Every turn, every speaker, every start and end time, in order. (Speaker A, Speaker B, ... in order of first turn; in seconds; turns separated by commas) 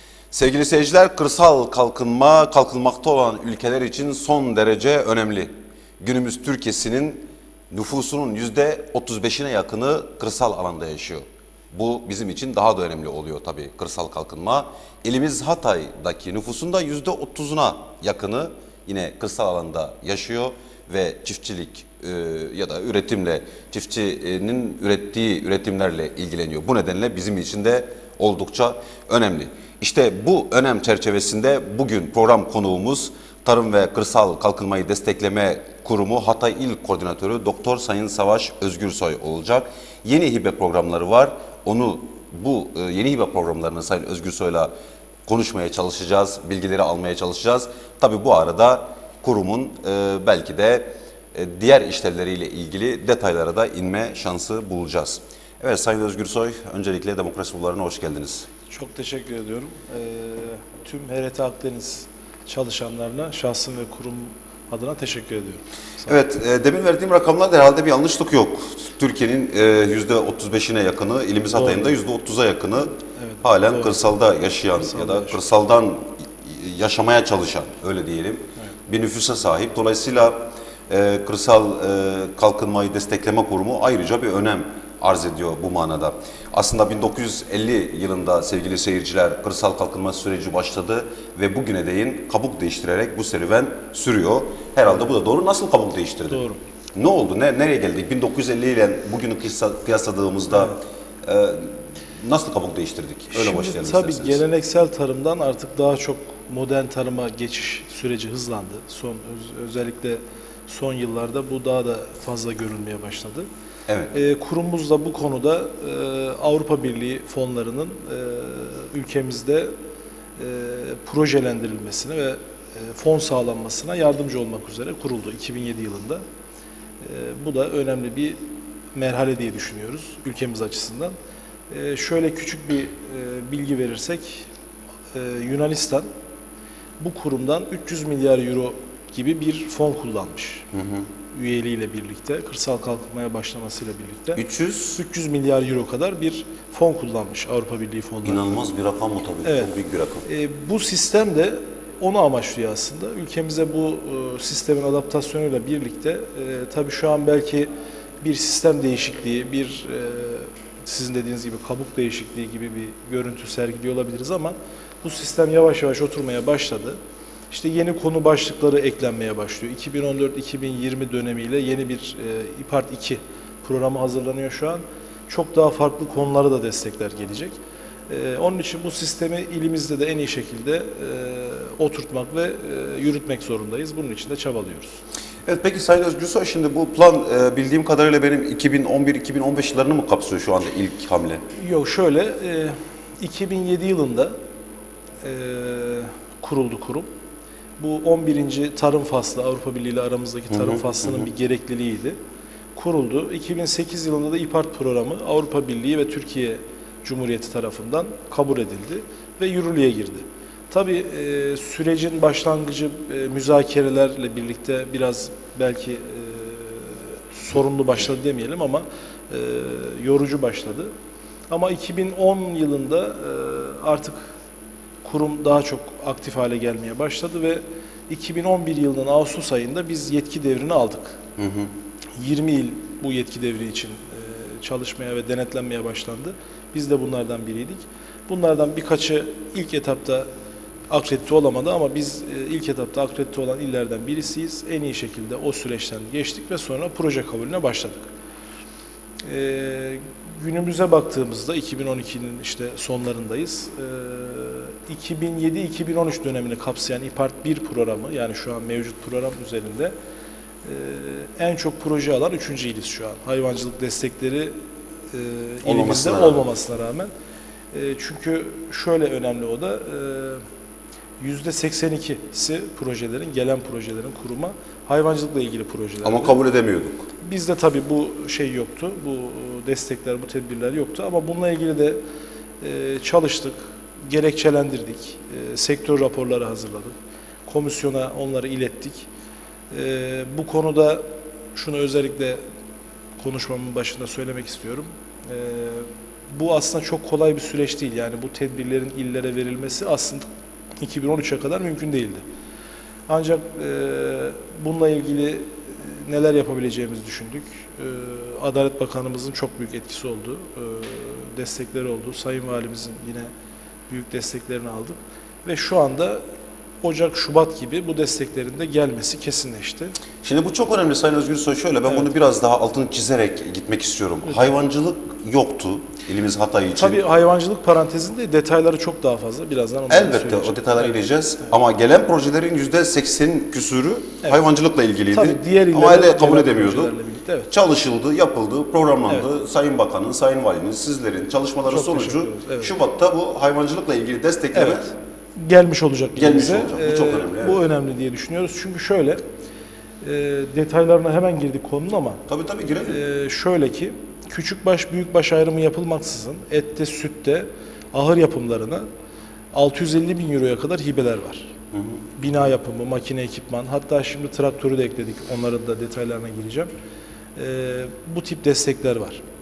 Speaker A: 0.3-44.7, Speaker A: 45.3-58.5, Speaker B: 58.7-66.2, Speaker A: 66.1-96.4, Speaker B: 71.5-72.0, Speaker B: 73.2-74.0, Speaker B: 74.8-75.4, Speaker B: 96.3-96.6, Speaker A: 97.0-104.4, Speaker B: 100.5-100.8, Speaker B: 103.3-113.5, Speaker A: 113.9-114.1, Speaker B: 114.1-119.7, Speaker B: 120.4-126.2, Speaker B: 127.0-131.1, Speaker B: 131.7-134.5, Speaker B: 135.1-136.1, Speaker B: 137.0-140.7, Speaker A: 140.7-141.1, Speaker B: 141.3-144.4, Speaker A: 144.3-145.0, Speaker B: 144.9-148.6, Speaker A: 148.2-150.3, Speaker B: 149.4-149.7, Speaker B: 150.2-157.7, Speaker B: 158.2-167.0, Speaker B: 167.5-177.6, Speaker B: 178.1-185.0, Speaker A: 185.4-191.4, Speaker B: 191.5-194.4, Speaker B: 195.2-197.1, Speaker B: 197.8-202.2, Speaker A: 200.5-201.3, Speaker B: 202.8-220.9, Speaker B: 221.5-224.3, Speaker B: 225.0-231.2, Speaker A: 231.4-231.7, Speaker B: 232.2-240.3, Speaker B: 240.9-248.1, Speaker B: 249.2-259.9, Speaker B: 260.6-264.6, Speaker B: 265.1-267.1, Speaker A: 265.6-266.4, Speaker B: 267.7-270.4, Speaker B: 271.2-276.4, Speaker A: 276.0-277.1, Speaker B: 277.2-282.0, Speaker B: 282.6-286.9, Speaker B: 287.5-289.1, Speaker B: 289.7-292.4, Speaker B: 293.2-300.3, Speaker B: 300.8-302.2, Speaker B: 303.1-313.3, Speaker B: 313.9-316.2, Speaker B: 316.8-319.9, Speaker A: 320.2-327.0, Speaker B: 326.8-330.8, Speaker A: 329.9-336.9, Speaker B: 335.1-337.5, Speaker A: 337.5-344.9, Speaker B: 341.6-342.8, Speaker B: 344.5-349.2, Speaker A: 346.2-347.6, Speaker B: 350.0-352.2, Speaker A: 352.3-353.0, Speaker B: 352.9-358.9, Speaker B: 359.5-361.5, Speaker A: 361.7-362.0, Speaker B: 362.2-366.7, Speaker B: 367.4-369.2